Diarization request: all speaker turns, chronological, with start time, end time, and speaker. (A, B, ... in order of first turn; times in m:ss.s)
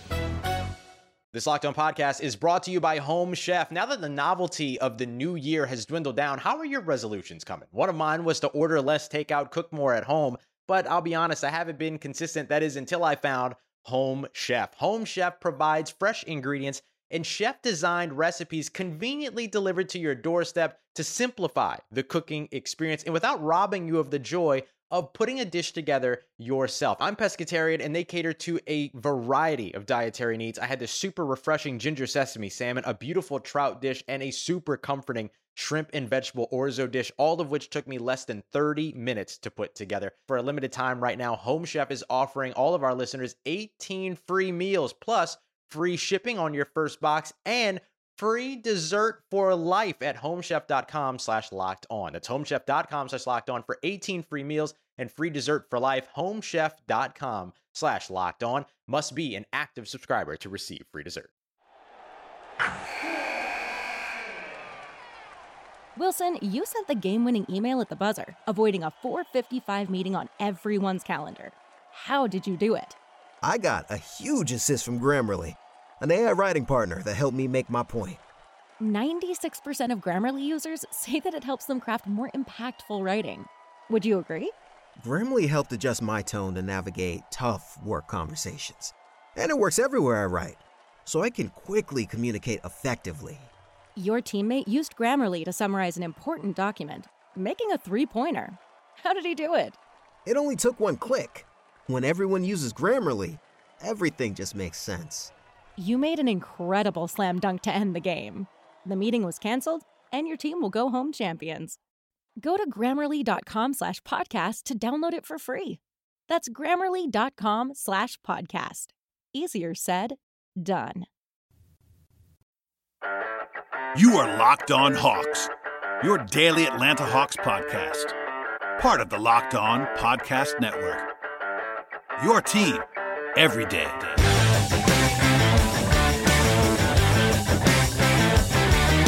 0:01.3-1:01.3 A
1:06.0-1:13.0 B
1:13.4-1:18.2 C
1:18.8-1:24.5 B
1:25.0-1:33.5 C
1:34.0-1:39.8 B
1:40.2-1:45.3 C
1:45.8-1:51.8 B
1:52.4-2:01.1 B
2:03.9-2:08.1 D
2:08.8-2:11.1 D
2:12.2-2:14.2 D